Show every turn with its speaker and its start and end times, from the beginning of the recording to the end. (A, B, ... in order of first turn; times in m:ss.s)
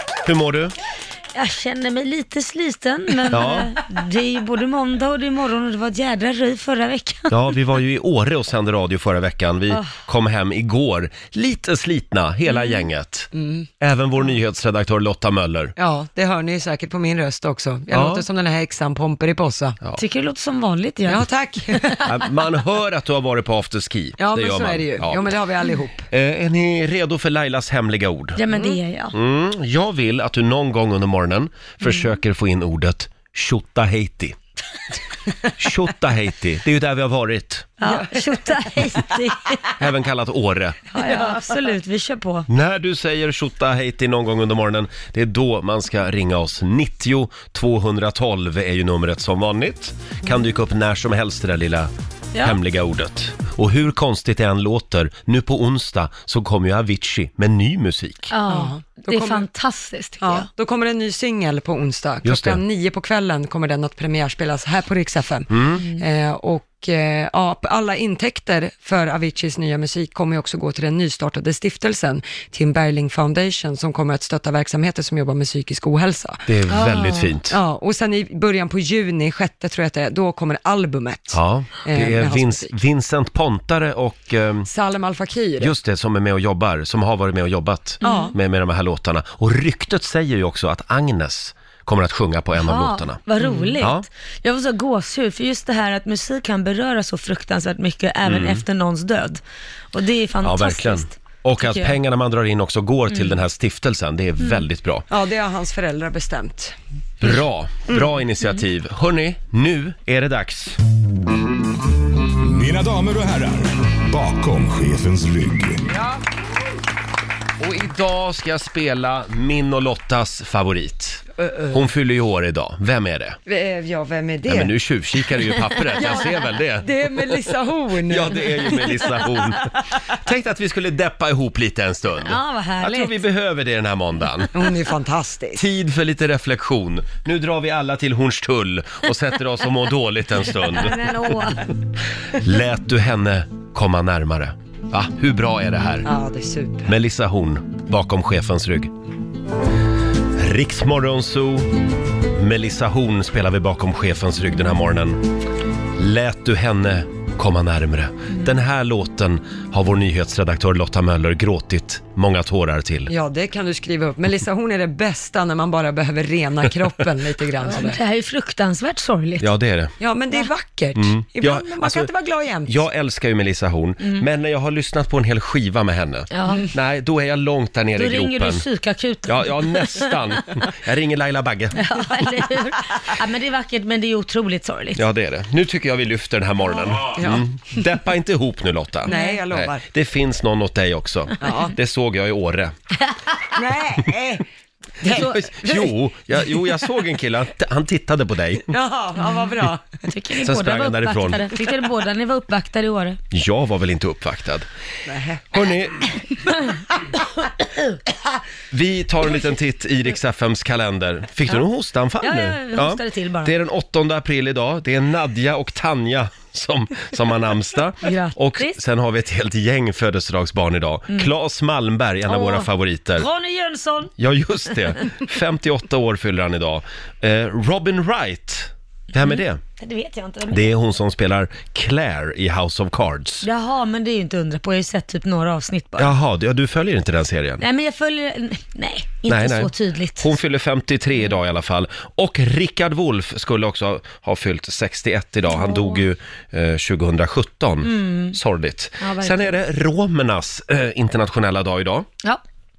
0:00.2-0:00.7 A
0:01.3-0:07.4 B
0:03.3-0:03.7 A
0:07.3-0:15.7 A
0:12.5-0:12.8 B
0:13.3-0:13.7 C
0:15.8-0:19.8 C
0:17.9-0:18.2 A
0:20.0-0:22.0 B
0:21.0-0:22.2 C
0:22.0-0:25.3 A
0:24.2-0:26.0 C
0:26.1-0:28.4 A
0:28.4-0:29.1 B
0:28.5-0:28.8 C
0:29.1-0:34.4 A
0:35.6-0:37.7 A
0:37.8-0:39.7 B
0:37.8-0:38.5 C
0:39.8-0:40.8 A
0:40.9-0:42.5 B
0:41.0-0:41.4 C
0:42.5-0:51.9 A
0:52.4-0:58.3 A
0:58.3-1:00.5 B
0:58.4-0:59.5 C
1:00.2-1:16.4 C
1:02.2-1:02.6 A
1:05.5-1:05.8 A
1:16.4-1:17.6 A
1:16.7-1:17.3 B
1:17.5-1:22.8 C
1:21.3-1:24.7 A
1:24.6-1:25.7 C
1:25.6-1:33.2 A
1:28.0-1:28.3 B
1:28.0-1:28.4 C
1:32.6-1:39.4 B
1:33.4-1:33.8 C
1:33.8-1:34.0 A
1:38.2-1:38.6 A
1:39.9-1:42.0 B
1:40.4-1:45.1 A
1:43.1-1:43.4 B
1:45.1-1:46.7 C
1:47.2-1:50.8 A
1:52.4-1:55.8 D
1:57.6-2:03.4 A
2:01.4-2:01.8 C
2:03.4-2:04.8 C
2:04.5-2:06.9 A
2:05.9-2:09.3 C
2:08.1-2:14.5 A
2:12.2-2:13.2 B
2:14.5-2:15.6 C
2:15.5-2:21.1 A
2:20.7-2:21.7 B
2:22.4-2:26.1 A
2:26.0-2:26.9 C
2:26.8-2:28.9 A
2:30.4-2:31.7 A
2:32.3-2:35.2 A
2:36.0-2:43.1 A
2:43.1-2:48.0 C
2:47.6-2:49.5 B
2:49.4-2:49.9 A
2:50.0-2:52.8 C
2:50.9-2:52.1 A
2:52.6-2:58.6 A
2:56.3-2:56.7 B
2:58.0-3:00.2 B
2:59.3-3:01.8 A
3:01.8-3:05.0 B
3:05.0-3:12.7 A
3:07.1-3:07.8 C
3:09.0-3:09.8 C
3:09.1-3:09.4 B
3:11.4-3:11.7 C
3:13.5-3:14.4 C
3:15.0-3:15.4 C
3:15.1-3:15.9 B
3:15.1-3:18.7 A
3:18.7-3:19.9 C
3:20.1-3:23.2 B
3:20.4-3:21.4 A
3:23.3-3:24.7 A
3:25.1-3:25.4 C
3:25.5-3:26.1 A
3:28.7-3:43.2 A
3:32.2-3:33.5 B
3:38.0-3:38.8 B
3:42.3-3:44.1 B
3:44.2-3:49.6 A
3:49.2-3:50.7 B
3:50.5-3:53.5 A
3:53.4-3:56.1 B
3:56.0-3:57.6 A
3:57.6-4:00.3 B
3:59.3-4:12.1 A
4:05.5-4:06.0 B
4:07.8-4:08.4 B
4:09.0-4:09.6 B